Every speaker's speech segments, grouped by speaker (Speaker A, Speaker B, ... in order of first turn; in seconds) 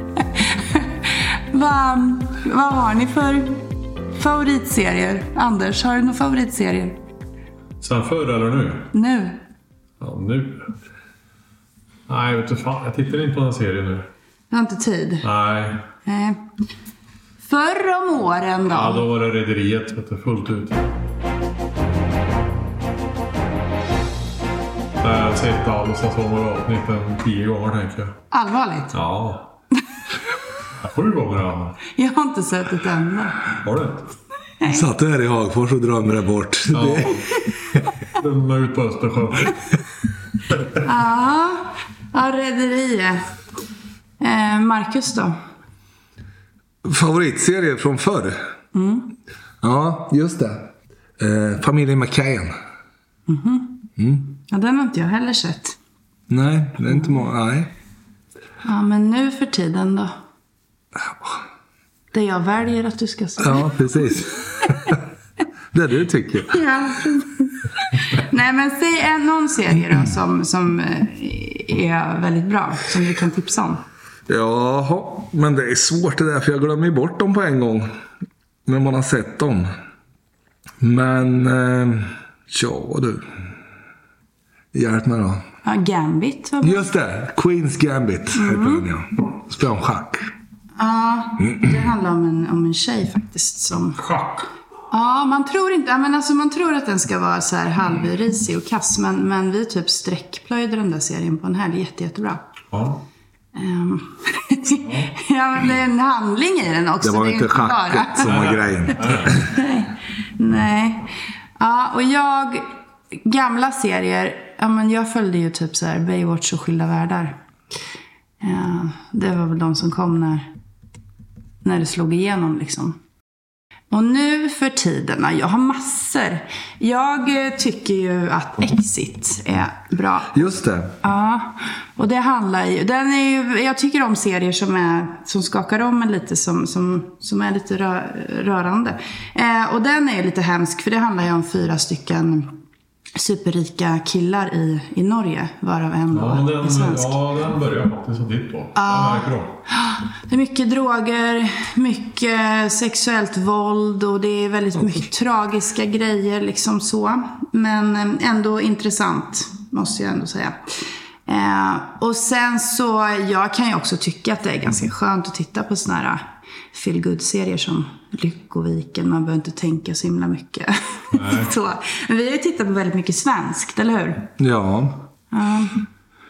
Speaker A: 0.3-7.0, 8.9-9.4, 14.5-15.3, 16.0-16.4, 17.4-19.1, 28.3-29.0, 31.9-33.4, 34.6-34.9, 40.8-43.2, 44.2-45.3, 48.7-49.1, 53.3-53.8, 54.5-55.8, 58.6-60.1, 62.1-63.8, 66.5-73.8, 85.6-86.9, 88.3-88.8, 90.8-94.0, 94.9-102.4, 103.5-108.3, 109.1-117.4, 118.4-120.4, 121.6-123.0, 123.9-142.6, 143.1-147.2, 148.7-160.6, 161.2-174.3, 175.3-175.8
Speaker B: 7.8-8.9, 10.0-10.7, 12.1-14.1, 15.2-15.8, 18.7-20.8, 25.0-28.1, 28.9-29.5, 30.8-31.8, 33.6-34.1, 36.7-37.3, 38.1-39.6, 94.0-94.5, 102.7-103.0, 104.8-105.1, 108.2-109.3, 146.1-149.6, 171.1-171.5
Speaker C: 34.6-37.3, 46.8-48.4, 49.6-52.5, 54.0-54.3, 56.3-57.7, 63.4-65.0, 65.7-66.6, 74.3-77.9, 78.7-79.7, 80.8-83.2, 84.7-85.4, 86.6-90.3, 91.4-91.7, 107.0-109.5, 130.3-130.9, 174.4-175.0